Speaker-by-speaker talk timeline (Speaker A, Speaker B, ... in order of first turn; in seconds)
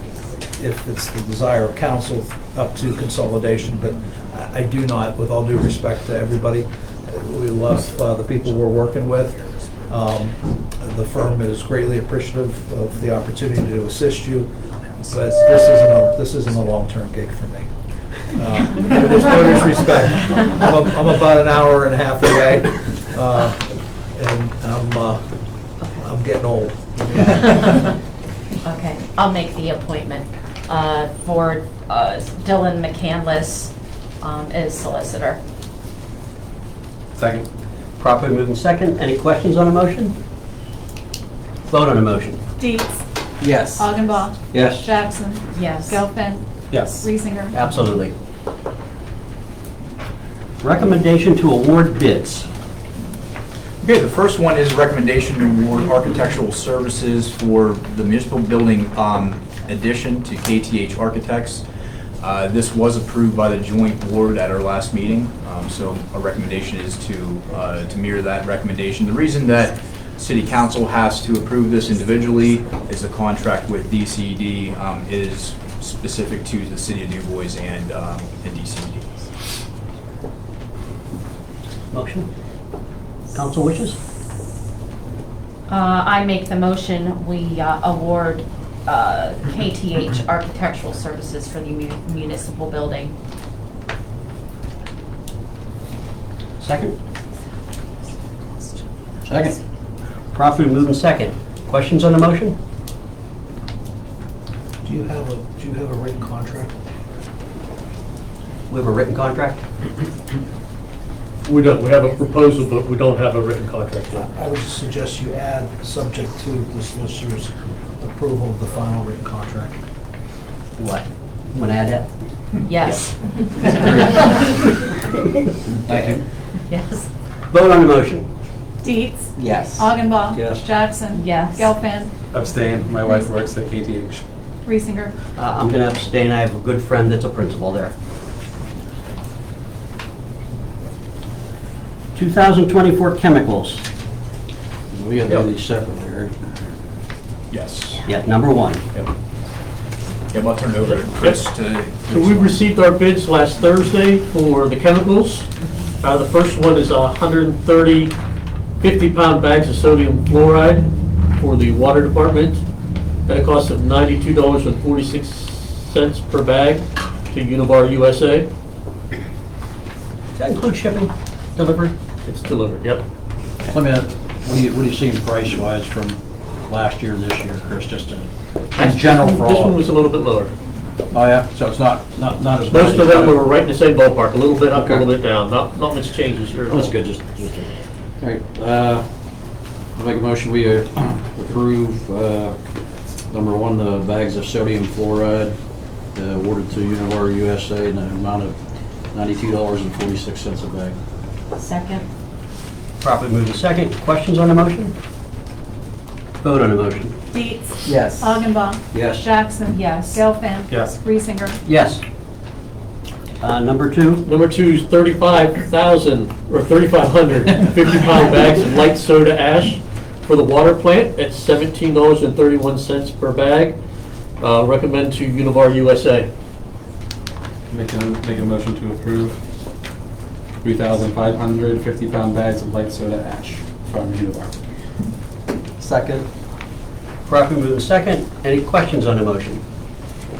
Speaker A: 0.6-14.5, 15.1-17.7, 18.2-25.3, 26.0-27.9, 104.8-106.7, 114.3-119.8
Speaker B: 25.8-26.1, 28.6-35.4, 45.5-46.0, 85.7-93.2, 122.7-124.5, 126.7-127.1, 131.1-131.7, 201.6-202.1, 209.7-210.2
Speaker C: 37.2-37.5, 46.7-47.0, 132.3-134.2, 210.7-211.0, 227.7-229.4, 230.6-234.5
Speaker D: 38.0-40.2, 41.7-42.4, 43.4-43.8, 47.5-48.1, 50.6-52.5, 81.9-82.3, 83.3-84.0, 96.6-97.0, 100.3-102.6, 108.7-109.6, 120.8-122.1, 127.5-128.3, 135.4-137.9, 142.2-143.9, 148.1-148.8, 170.4-171.9, 203.0-204.9, 206.4-207.2, 211.7-212.0, 213.4-214.2, 237.2-239.6
Speaker E: 42.6-43.0, 43.8-47.8, 128.8-132.1, 134.7-135.2, 207.3-211.6
Speaker F: 44.5-44.9, 99.3-99.6, 144.9-146.3, 173.7-179.8, 181.1-183.4, 184.8-185.1, 186.7-189.1, 190.0-192.6, 193.3-195.6, 196.1-198.6, 199.1-201.0, 208.9-209.2
Speaker G: 53.8-61.6, 62.2-79.0, 147.5-148.1, 150.3-152.6
Speaker H: 111.5-114.3, 150.9-151.5, 152.1-155.5, 156.0-158.2, 158.8-162.6, 163.3-168.5, 172.3-173.0, 178.8-180.5, 182.7-187.0, 214.2-223.8, 224.4-226.3